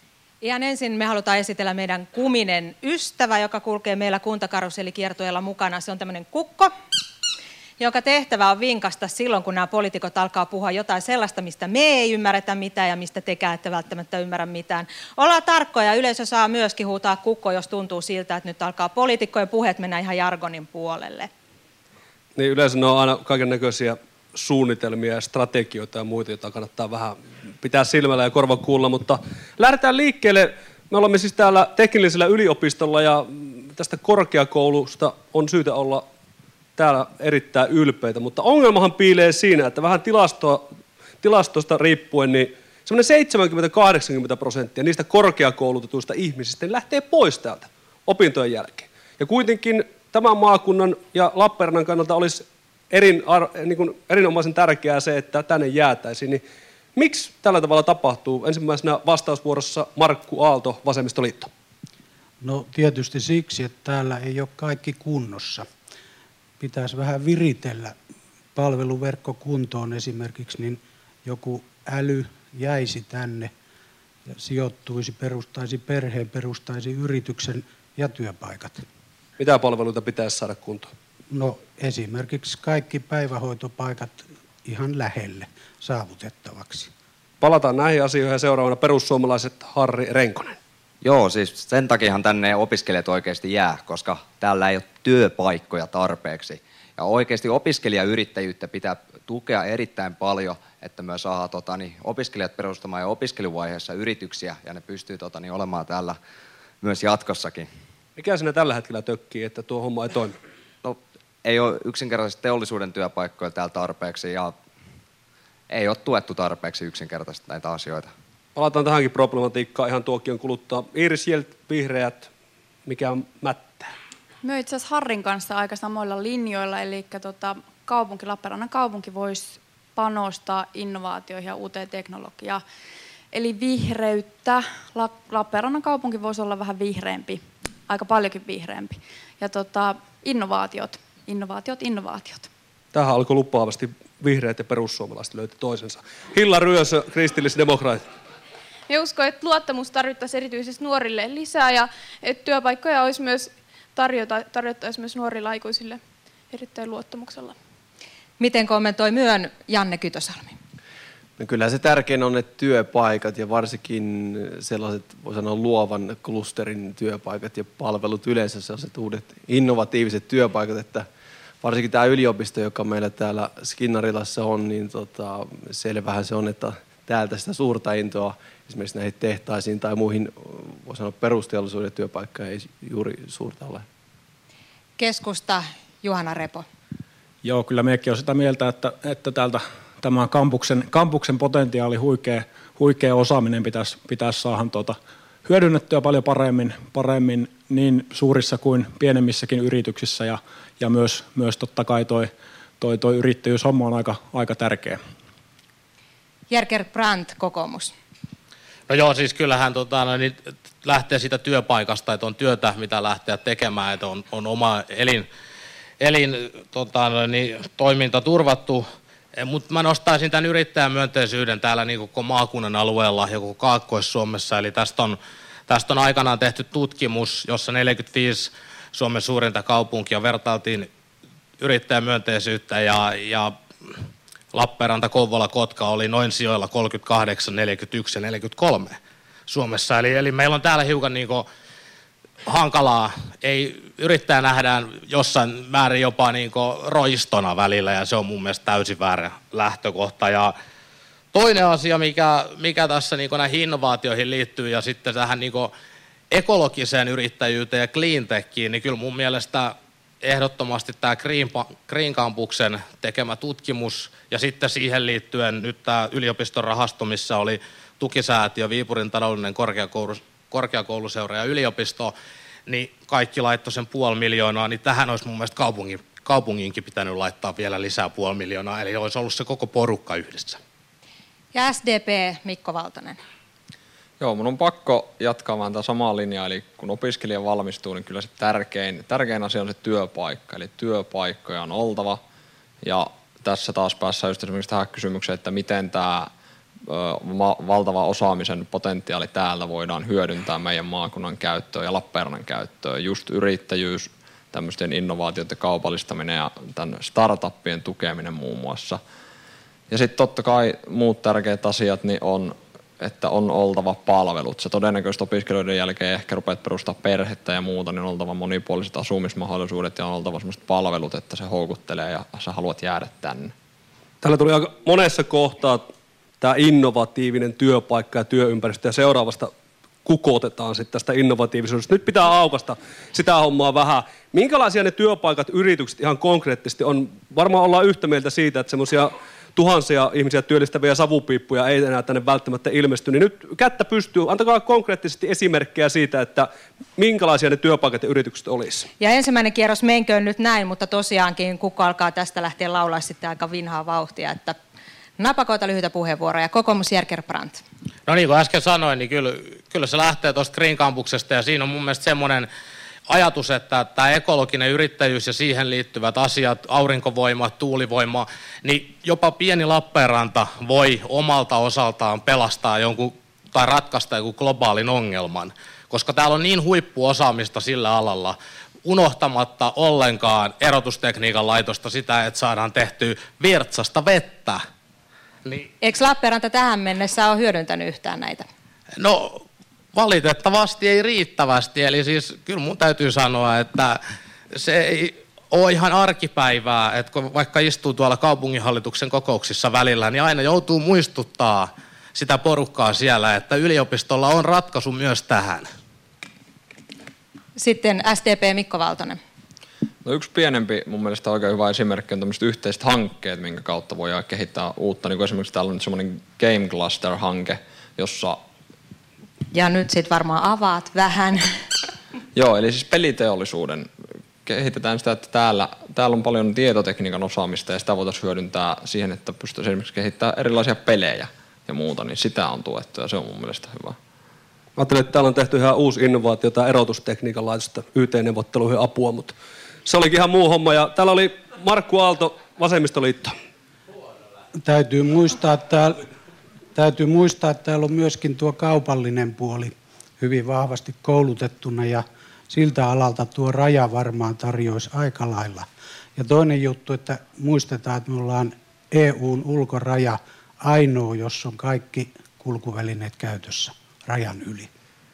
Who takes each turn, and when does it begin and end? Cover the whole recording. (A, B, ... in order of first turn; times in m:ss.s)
0:00.4-0:06.7 A
0:07.8-0:21.3 A
0:22.4-0:36.0 B
0:36.8-0:40.6 B
0:41.2-0:56.4 B
0:57.0-1:01.5 B
1:02.4-1:05.6 C
1:06.6-1:07.9 C
1:08.6-1:13.5 C
1:14.4-1:18.8 C
1:19.4-1:20.9 B
1:21.3-1:26.9 C
1:27.4-1:30.6 B
1:31.0-1:46.2 D
1:46.8-1:47.7 D
1:48.2-1:50.4 B
1:50.8-1:54.6 D
1:55.7-1:58.1 D
1:58.6-2:02.3 B
2:02.9-2:03.9 B
2:04.4-2:12.6 E
2:13.3-2:22.5 E
2:22.9-2:28.0 B
2:28.9-2:37.6 F
2:38.4-2:40.5 A
2:41.4-2:51.1 G
2:51.6-3:03.8 G
3:05.0-3:06.6 A
3:07.4-3:25.0 H
3:26.5-3:27.9 A
3:28.9-3:35.3 I
3:36.0-3:38.8 I
3:39.4-3:50.9 I
3:51.6-3:53.5 I
3:54.5-3:59.0 I
3:59.5-4:01.5 I
4:02.5-4:10.5 I
4:11.3-4:15.7 I
4:16.3-4:32.1 I
4:32.7-4:40.6 I
4:41.5-4:43.2 A
4:44.2-4:52.2 J
4:52.8-4:56.3 J
4:56.9-5:09.0 J
5:09.9-5:23.5 J
5:24.2-5:25.9 B
5:26.4-5:29.5 B
5:30.0-5:48.9 B
5:49.0-5:54.6 A
5:55.2-5:57.6 A
5:58.1-6:02.5 I
6:03.1-6:24.6 I
6:25.8-6:28.4 A
6:29.0-6:29.4 I
6:29.9-6:34.0 I
6:34.5-6:45.6 I
6:47.6-6:49.2 A
6:50.0-6:58.4 J
6:59.5-7:01.4 A
7:02.3-7:03.9 J
7:04.4-7:14.0 J
7:14.8-7:19.4 B
7:19.9-7:23.3 B
7:24.6-7:26.0 C
7:26.8-7:35.7 C
7:36.2-7:44.7 C